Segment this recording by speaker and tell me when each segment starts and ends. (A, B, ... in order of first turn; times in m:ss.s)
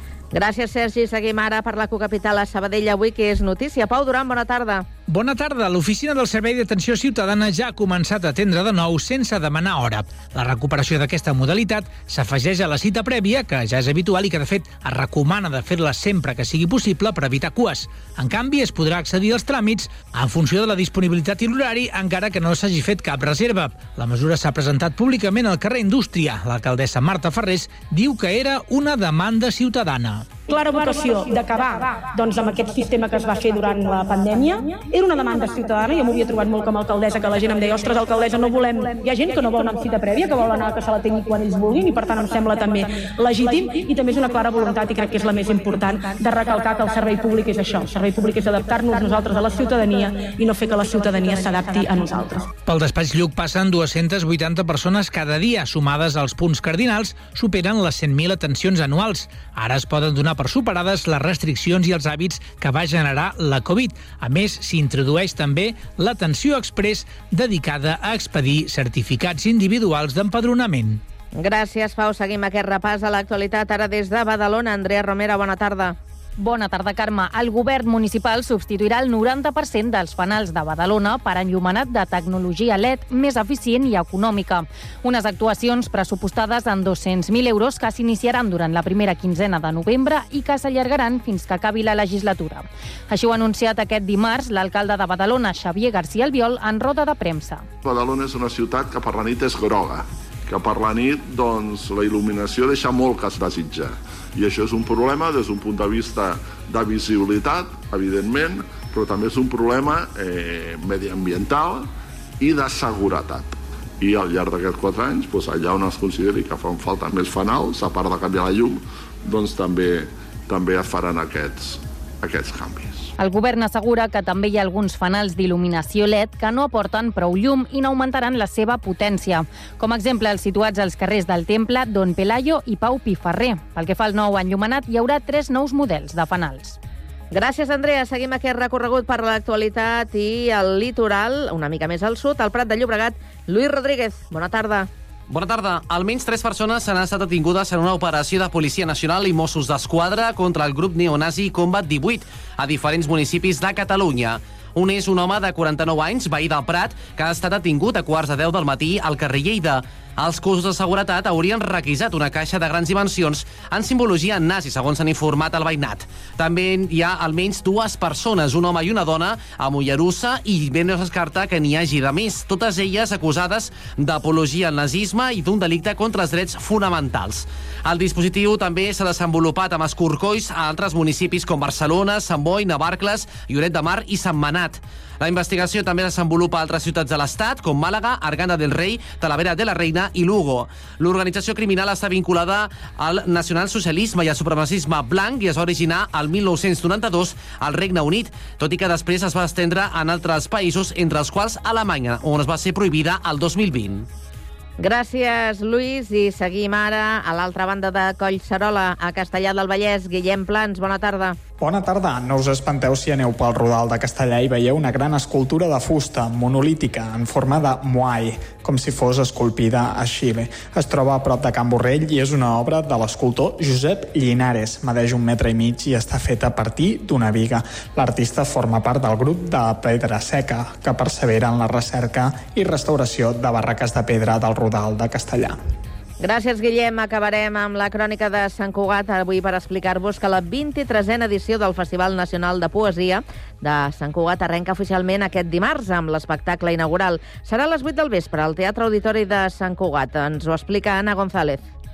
0:00.3-0:04.9 A
0:05.1-0:30.3 B
0:30.5-0:52.5 C
0:52.6-1:11.0 B
1:11.3-1:16.0 A
1:16.4-1:37.6 D
1:37.8-1:51.9 E
1:52.4-2:03.1 E
2:03.2-2:16.8 D
2:17.3-2:24.9 A
2:25.3-3:24.1 F
3:24.8-3:31.4 A
3:31.6-3:55.6 G
3:56.2-4:11.7 A